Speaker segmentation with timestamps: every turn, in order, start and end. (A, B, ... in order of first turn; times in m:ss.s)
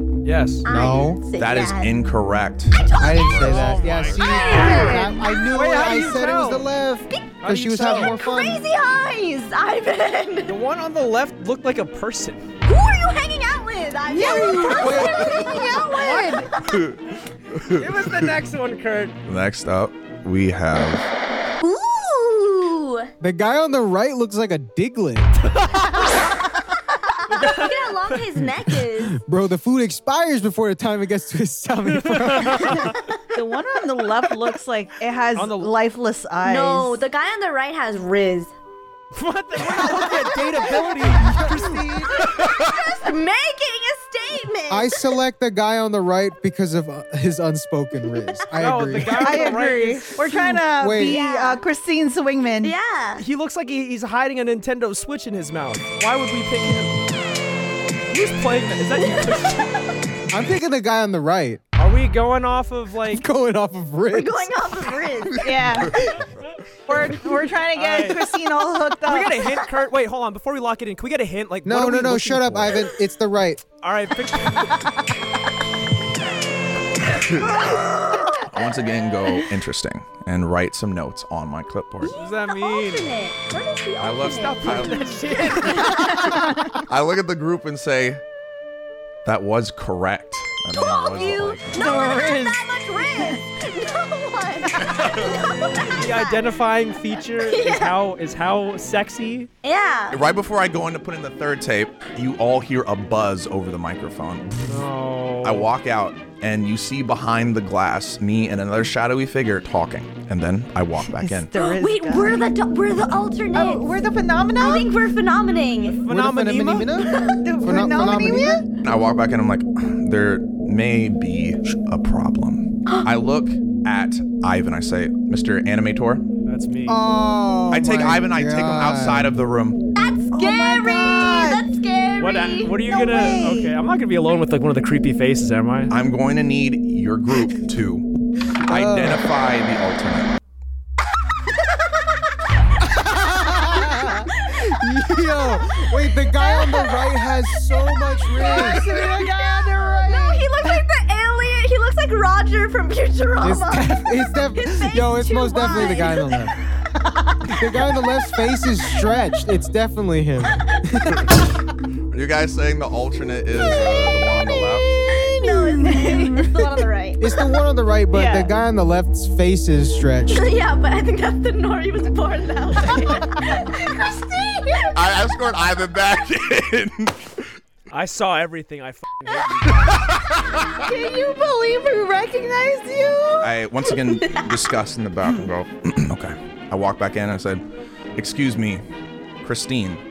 0:00.2-0:00.7 A
0:00.6-0:02.0 B
0:00.7-0:01.2 C
0:01.4-0:04.2 D
0:02.8-0:03.6 B
0:03.0-0:08.6 C
0:03.3-0:06.7 A
0:04.2-0:05.7 B
0:04.5-0:05.2 E
0:07.1-0:07.4 B
0:07.4-0:08.2 A
0:08.0-0:10.5 B
0:10.5-0:12.5 A
0:12.6-0:16.8 B
0:14.1-0:16.5 E
0:14.2-0:15.5 C
0:16.7-0:18.2 D
0:17.7-0:19.2 A
0:19.2-0:21.1 D
0:21.6-0:23.1 B
0:23.2-0:25.4 C
0:25.5-0:26.0 A
0:26.9-0:29.2 B
0:27.3-0:28.2 A
0:29.0-0:32.9 C
0:31.9-0:32.8 A
0:32.7-0:33.1 B
0:33.3-0:37.0 E
0:35.3-0:35.7 A
0:36.4-0:38.5 B
0:39.1-0:42.3 A
0:39.6-0:42.2 C
0:42.1-0:45.1 B
0:44.7-0:49.5 C
0:48.6-0:50.5 A
0:49.1-0:52.8 E
0:50.3-0:51.2 C
0:51.0-0:51.6 B
0:52.6-0:53.2 B
0:53.2-0:57.0 A
0:58.1-0:59.8 A
0:59.0-0:59.9 B
1:00.3-1:01.6 C
1:01.8-1:03.2 A
1:03.1-1:04.8 C
1:04.1-1:06.1 B
1:05.4-1:06.0 E
1:06.9-1:09.3 E
1:07.7-1:08.3 A
1:09.0-1:12.8 A
1:09.4-1:09.7 B
1:11.6-1:13.6 C
1:13.8-1:15.0 A
1:17.1-1:22.1 D
1:17.4-1:18.8 B
1:22.0-1:26.3 B
1:22.1-1:23.1 A
1:24.0-1:25.8 D
1:24.2-1:26.1 A
1:26.1-1:26.8 E
1:26.8-1:28.2 D
1:29.2-1:31.8 D
1:30.7-1:36.4 B
1:31.7-1:33.4 E
1:35.9-1:39.5 A
1:37.4-1:38.0 B
1:39.6-1:40.2 B
1:40.1-1:44.7 D
1:44.6-1:45.7 A
1:45.4-1:51.5 D
1:51.0-1:52.5 E
1:51.5-1:54.0 B
1:53.5-1:54.9 E
1:54.6-1:56.0 B
1:55.8-1:56.9 A
1:56.1-1:58.6 C
1:57.1-1:57.4 B
1:57.4-1:58.6 E
1:58.8-2:06.2 D
2:06.4-2:07.0 A
2:06.9-2:09.3 C
2:07.7-2:09.8 D
2:10.0-2:13.6 B
2:10.3-2:11.7 E
2:12.2-2:15.9 A
2:12.9-2:13.7 E
2:15.9-2:18.1 D
2:18.6-2:20.4 D
2:18.7-2:19.3 C
2:21.5-2:22.4 B
2:23.1-2:28.9 C
2:23.6-2:24.6 B
2:26.4-2:36.5 B
2:28.4-2:30.8 E
2:33.4-2:36.5 C
2:37.5-2:41.2 C
2:42.1-2:44.9 D
2:43.7-2:44.2 B
2:45.1-2:47.5 B
2:45.5-2:46.5 E
2:47.2-2:50.5 C
2:48.1-2:48.5 E
2:50.3-2:55.0 B
2:54.9-2:57.5 D
2:57.9-2:59.8 A
2:59.7-3:00.8 D
3:00.8-3:03.6 E
3:03.4-3:07.6 D
3:03.9-3:04.5 B
3:08.1-3:08.8 D
3:09.4-3:10.0 D